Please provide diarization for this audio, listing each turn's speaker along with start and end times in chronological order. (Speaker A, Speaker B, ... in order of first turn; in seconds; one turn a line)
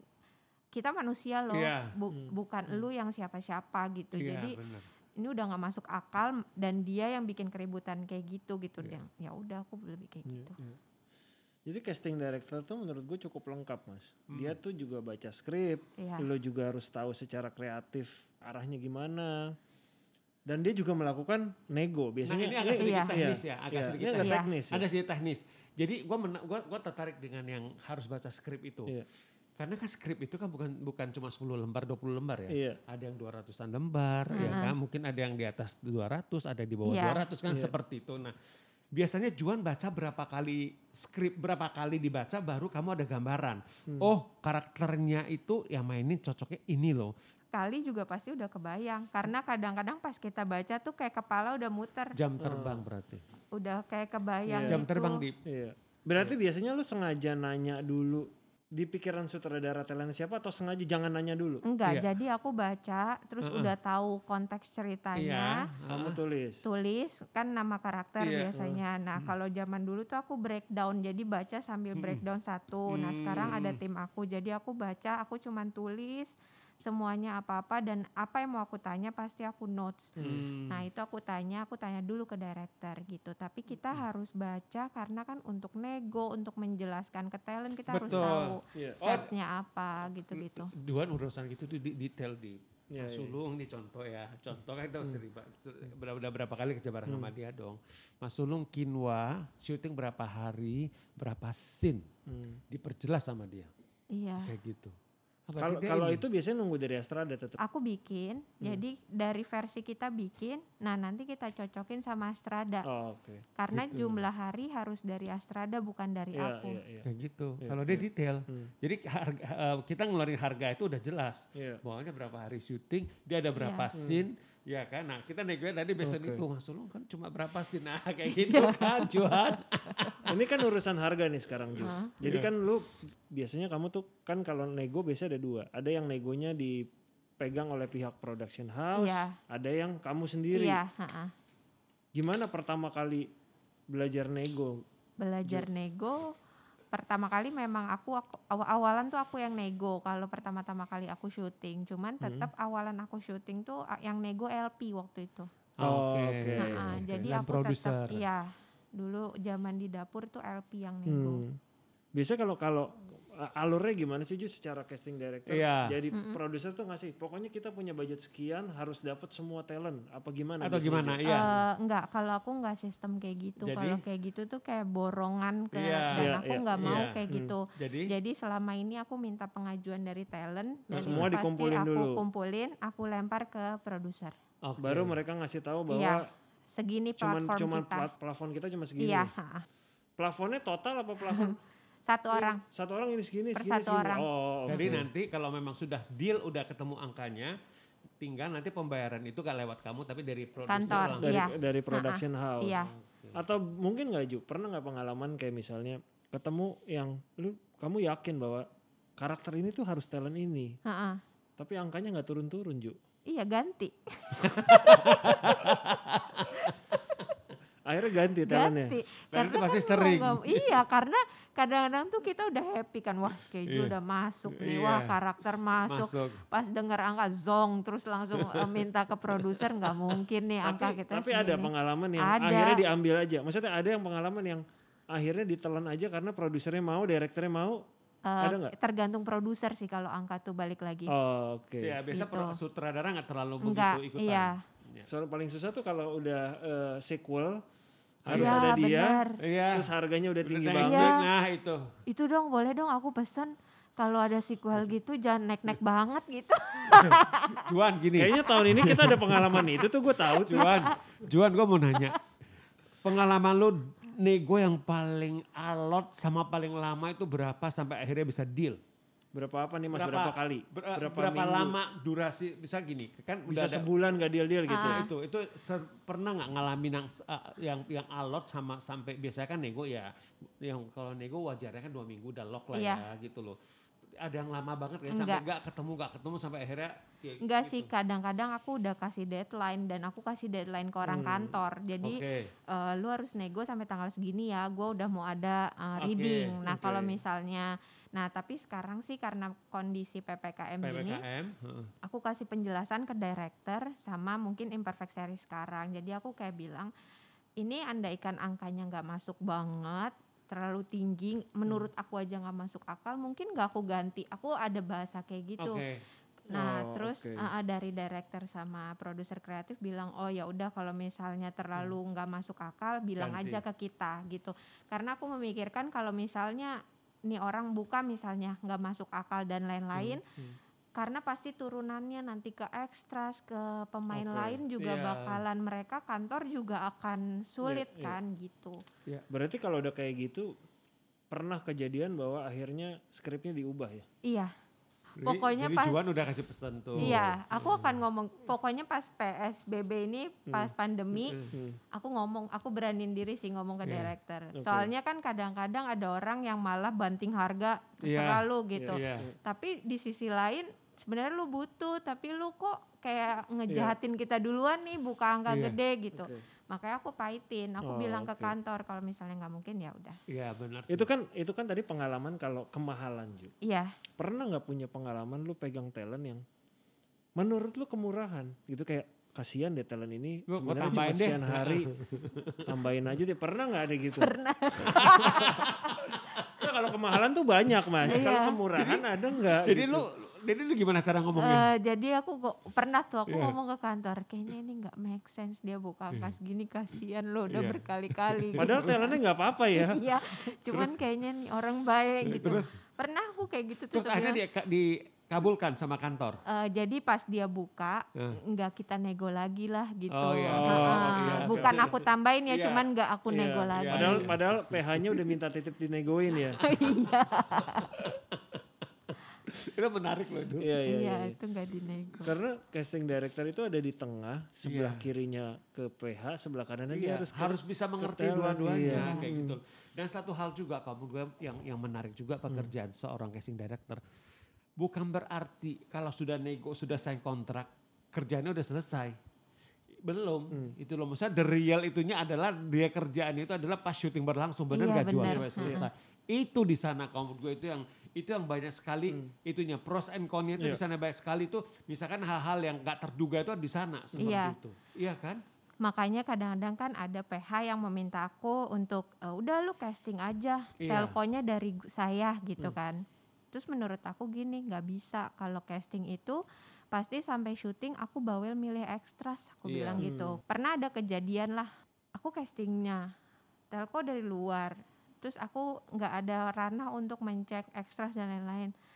Speaker A: 0.7-4.6
Speaker B: 1.5-1.9
Speaker B: 4.2-4.9
Speaker A: 5.2-10.6
Speaker C: 10.3-10.8
Speaker C: 11.7-19.6
Speaker B: 14.3-14.6
Speaker A: 16.0-16.3
Speaker C: 20.5-24.9
Speaker B: 22.2-29.0
Speaker A: 22.8-23.2
Speaker A: 24.2-24.5
Speaker B: 29.6-38.4
Speaker C: 32.5-32.8
Speaker A: 34.3-34.8
Speaker A: 36.9-37.2
Speaker C: 37.5-37.7
Speaker B: 38.9-47.1
Speaker A: 47.5-52.2
Speaker B: 52.1-53.2
Speaker C: 52.4-52.8
Speaker A: 53.5-55.2
Speaker C: 54.5-54.8
Speaker B: 54.6-55.4
Speaker C: 55.5-61.6
Speaker A: 61.6-65.7
Speaker B: 61.9-62.1
Speaker B: 63.4-63.7
Speaker B: 65.2-66.2
Speaker C: 65.9-66.6
Speaker A: 66.6-80.2
Speaker B: 68.2-68.5
Speaker C: 68.5-68.8
Speaker B: 72.0-72.2
Speaker B: 72.9-73.8
Speaker C: 80.2-80.4
Speaker B: 80.2-80.9
Speaker A: 80.7-90.7
Speaker B: 87.9-89.3
Speaker C: 88.0-89.2
Speaker B: 90.3-102.1
Speaker C: 92.9-93.4
Speaker C: 97.1-97.3
Speaker C: 102.3-102.6
Speaker B: 102.7-103.7
Speaker A: 104.1-104.5
Speaker B: 104.4-105.0
Speaker B: 105.5-106.2
Speaker C: 105.6-107.6
Speaker A: 107.6-112.9
Speaker C: 112.9-113.5
Speaker A: 113.6-116.8
Speaker B: 113.7-114.2
Speaker C: 116.3-117.1
Speaker B: 117.0-130.4
Speaker C: 117.6-118.7
Speaker C: 121.5-121.8
Speaker A: 123.6-123.9
Speaker C: 124.0-124.3
Speaker C: 126.0-126.4
Speaker A: 128.3-130.2
Speaker C: 130.3-140.8
Speaker A: 131.8-132.1
Speaker B: 132.2-132.5
Speaker A: 138.9-139.4
Speaker A: 140.5-141.3
Speaker C: 142.1-143.3
Speaker C: 143.9-144.8
Speaker A: 145.2-146.3
Speaker A: 146.9-155.5
Speaker C: 152.2-152.5
Speaker B: 155.8-158.2
Speaker C: 155.8-157.0
Speaker A: 156.6-161.4
Speaker C: 161.1-161.6
Speaker C: 162.1-171.6
Speaker B: 165.5-165.9
Speaker A: 166.1-166.4
Speaker B: 170.6-171.5
Speaker A: 171.2-184.4
Speaker B: 173.6-174.0
Speaker B: 175.7-178.1
Speaker C: 176.1-177.6
Speaker C: 180.9-182.2
Speaker B: 180.9-181.3
Speaker B: 184.6-185.2
Speaker C: 184.8-186.3
Speaker A: 185.9-188.1
Speaker C: 187.2-189.3
Speaker A: 189.0-189.7
Speaker C: 190.2-191.6
Speaker A: 191.3-191.6
Speaker A: 192.1-192.6
Speaker C: 192.3-195.1
Speaker A: 193.6-195.0
Speaker B: 194.7-197.5
Speaker B: 198.2-201.4
Speaker A: 200.7-202.9
Speaker C: 200.9-210.8
Speaker B: 202.7-203.4
Speaker A: 210.8-211.2
Speaker C: 211.6-213.0
Speaker A: 213.3-215.5
Speaker B: 214.4-217.3
Speaker A: 216.5-216.7
Speaker C: 217.9-219.0
Speaker A: 218.4-232.8
Speaker B: 219.3-220.8
Speaker B: 223.7-224.0
Speaker B: 224.5-225.2
Speaker B: 225.9-226.4
Speaker B: 228.4-228.8
Speaker B: 229.3-230.2
Speaker C: 230.6-237.8
Speaker A: 238.3-241.1
Speaker C: 238.4-238.7
Speaker C: 241.1-242.0
Speaker B: 241.8-245.1
Speaker A: 242.1-242.6
Speaker A: 243.6-244.6
Speaker C: 245.1-247.6
Speaker C: 248.2-251.2
Speaker B: 248.3-248.8
Speaker A: 248.3-249.4
Speaker B: 249.4-249.9
Speaker B: 250.4-251.9
Speaker A: 250.8-251.2
Speaker A: 252.1-257.7
Speaker B: 256.9-262.2
Speaker C: 258.1-260.9
Speaker A: 260.3-261.0
Speaker B: 263.0-268.8
Speaker C: 269.3-271.8
Speaker B: 269.9-273.9
Speaker C: 273.5-275.1
Speaker A: 274.7-275.1
Speaker B: 274.7-283.6
Speaker A: 282.7-283.0
Speaker B: 284.2-287.9
Speaker A: 285.1-285.4
Speaker A: 287.4-301.2
Speaker C: 291.1-291.6
Speaker B: 292.0-292.5
Speaker B: 296.0-296.6
Speaker C: 296.7-297.2
Speaker B: 300.8-301.9
Speaker A: 302.0-306.9
Speaker A: 307.6-315.8
Speaker B: 315.6-316.0
Speaker A: 316.5-330.2
Speaker C: 316.5-317.5
Speaker B: 323.2-323.6
Speaker C: 329.9-330.6
Speaker A: 331.0-338.8
Speaker C: 334.1-334.6
Speaker B: 334.8-335.4
Speaker C: 337.6-338.2
Speaker C: 339.3-340.5
Speaker C: 341.3-344.1
Speaker A: 344.2-344.5
Speaker B: 345.2-347.9
Speaker A: 345.2-346.1
Speaker C: 347.0-347.8
Speaker A: 347.0-351.4
Speaker B: 351.2-351.6
Speaker C: 351.5-351.8
Speaker A: 351.9-370.2
Speaker B: 353.8-354.1
Speaker C: 354.6-354.9
Speaker B: 358.0-359.3
Speaker C: 358.8-359.4
Speaker C: 363.7-363.9
Speaker B: 365.5-365.8
Speaker C: 366.1-366.5
Speaker C: 367.8-368.6
Speaker B: 370.3-371.1
Speaker C: 370.9-373.5
Speaker A: 373.6-373.9
Speaker C: 374.2-376.4
Speaker C: 377.4-381.9
Speaker B: 380.5-382.6
Speaker C: 382.6-384.3
Speaker A: 384.2-385.9
Speaker B: 384.9-386.5
Speaker C: 386.5-390.1
Speaker B: 388.0-391.7
Speaker A: 388.1-388.6
Speaker A: 391.4-399.2
Speaker B: 393.3-393.6
Speaker B: 397.5-399.0
Speaker C: 398.6-400.1
Speaker A: 399.7-404.4
Speaker B: 400.7-401.0
Speaker B: 402.2-402.7
Speaker B: 403.9-406.4
Speaker A: 406.5-414.3
Speaker B: 410.1-412.9
Speaker C: 410.5-411.9
Speaker C: 413.3-416.6
Speaker B: 413.7-415.3
Speaker A: 416.6-418.0
Speaker B: 417.5-418.6
Speaker B: 419.5-420.7
Speaker C: 420.6-421.4
Speaker A: 420.8-422.3
Speaker C: 422.2-429.6
Speaker B: 424.6-425.1
Speaker B: 426.9-434.0
Speaker A: 428.9-429.3
Speaker C: 432.5-432.7
Speaker B: 434.8-439.1
Speaker B: 440.0-455.4
Speaker C: 440.5-440.8
Speaker A: 444.7-445.9
Speaker C: 445.2-445.9
Speaker C: 454.1-454.4
Speaker A: 454.2-454.6
Speaker A: 455.8-466.4
Speaker B: 460.8-461.2
Speaker A: 466.9-473.1
Speaker B: 469.6-470.0
Speaker C: 470.0-470.4
Speaker A: 473.7-478.7